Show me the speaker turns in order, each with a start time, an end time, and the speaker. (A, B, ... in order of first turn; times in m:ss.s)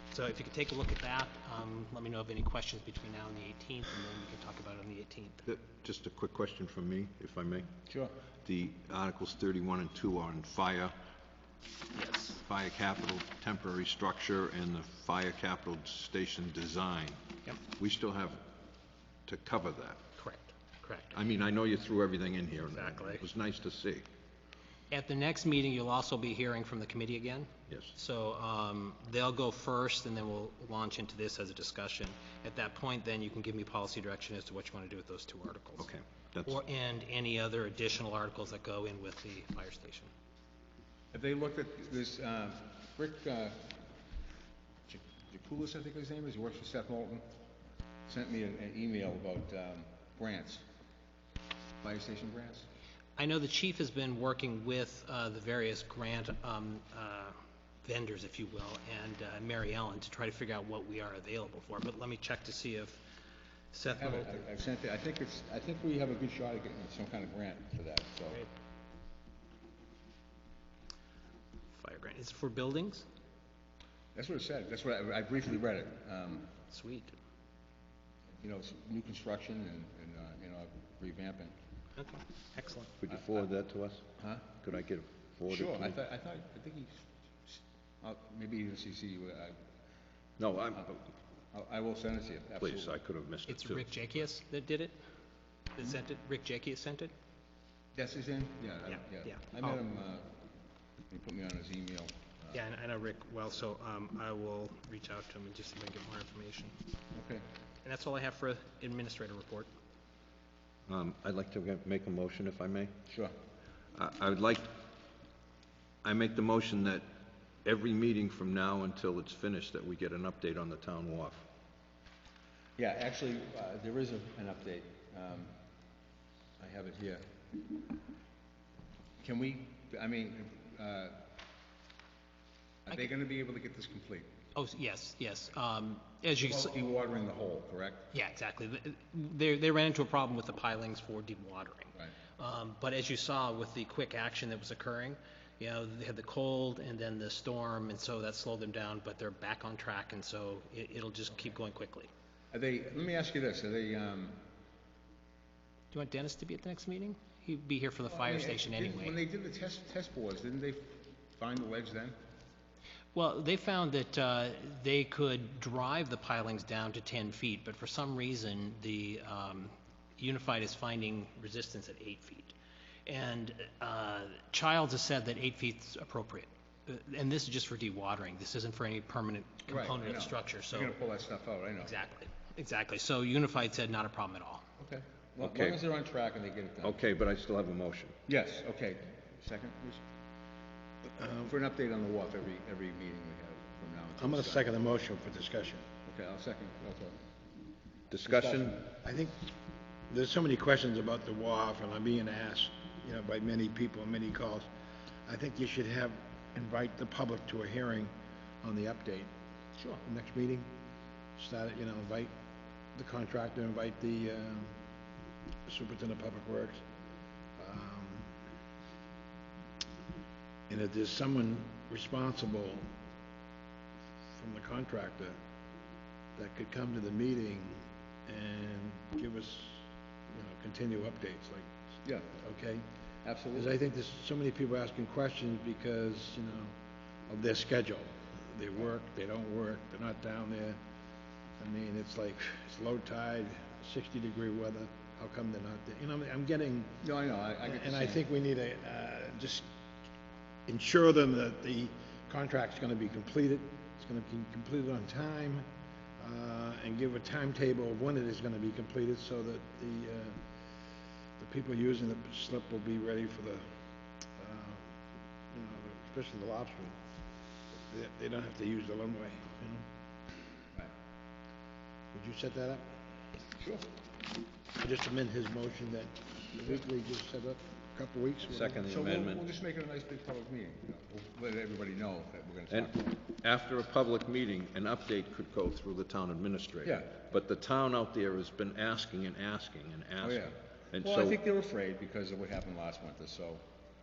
0:00.1-0:05.4 A
0:05.4-0:07.7 B
0:07.9-0:08.1 C
0:08.4-0:11.0 B
0:11.9-0:12.4 A
0:12.4-0:18.4 B
0:19.3-0:20.0 B
0:20.2-0:21.2 A
0:21.1-0:24.1 B
0:22.7-0:23.2 A
0:24.9-0:35.9 A
0:35.8-0:36.6 B
0:36.4-0:40.1 A
0:41.1-0:43.7 C
0:44.9-0:47.3 C
0:48.1-0:50.6 C
0:51.8-0:52.7 C
0:53.2-1:03.0 A
1:03.7-1:04.3 A
1:04.0-1:08.4 C
1:11.7-1:13.0 A
1:14.2-1:16.5 C
1:16.7-1:17.2 A
1:18.4-1:21.5 C
1:22.0-1:22.9 A
1:23.0-1:26.0 B
1:23.1-1:23.4 C
1:24.2-1:24.5 C
1:25.5-1:29.6 C
1:30.4-1:31.0 B
1:31.5-1:33.0 C
1:32.6-1:33.8 B
1:33.5-1:35.0 A
1:35.8-1:37.1 A
1:38.0-1:40.3 C
1:39.2-1:39.6 A
1:41.1-1:42.6 C
1:42.5-1:46.8 A
1:47.1-1:47.4 C
1:47.8-1:49.7 A
1:50.9-1:52.9 B
1:53.1-1:53.3 C
1:54.0-1:54.8 B
1:56.0-1:57.1 B
1:57.6-2:01.4 B
2:02.8-2:05.5 C
2:06.6-2:07.7 C
2:09.2-2:11.2 C
2:12.9-2:14.3 C
2:14.6-2:16.7 A
2:16.4-2:18.1 C
2:18.1-2:32.1 A
2:32.5-2:34.4 C
2:35.9-2:39.2 A
2:38.1-2:42.2 C
2:43.1-2:52.6 A
2:53.1-3:01.0 A
2:59.7-3:01.9 C
3:01.8-3:04.6 A
3:04.8-3:07.0 C
3:05.4-3:05.8 B
3:06.8-3:08.2 B
3:08.3-3:10.0 C
3:11.2-3:11.5 D
3:11.5-3:14.7 C
3:14.2-3:15.9 D
3:16.1-3:17.2 C
3:18.1-3:18.8 B
3:18.4-3:19.5 D
3:20.1-3:24.7 D
3:25.3-3:29.3 D
3:30.0-3:30.7 D
3:31.4-3:32.3 D
3:33.0-3:34.8 D
3:35.7-3:36.8 D
3:37.6-3:38.3 D
3:40.7-3:42.9 D
3:44.4-3:45.4 D
3:46.4-3:51.7 D
3:52.0-3:52.3 C
3:52.4-3:52.9 D
3:53.2-3:53.7 C
3:53.5-3:56.7 D
3:57.3-4:00.8 D
4:01.6-4:07.0 D
4:07.0-4:08.2 C
4:07.6-4:09.7 D
4:10.7-4:15.7 D
4:16.2-4:20.4 D
4:21.4-4:23.7 D
4:24.4-4:24.9 D
4:25.5-4:27.0 D
4:27.9-4:29.9 D
4:32.1-4:32.9 D
4:33.6-4:33.9 C
4:34.8-4:38.8 D
4:38.4-4:39.4 B
4:38.8-4:43.2 C
4:42.7-4:51.4 B
4:46.8-4:47.1 C
4:50.2-4:53.6 C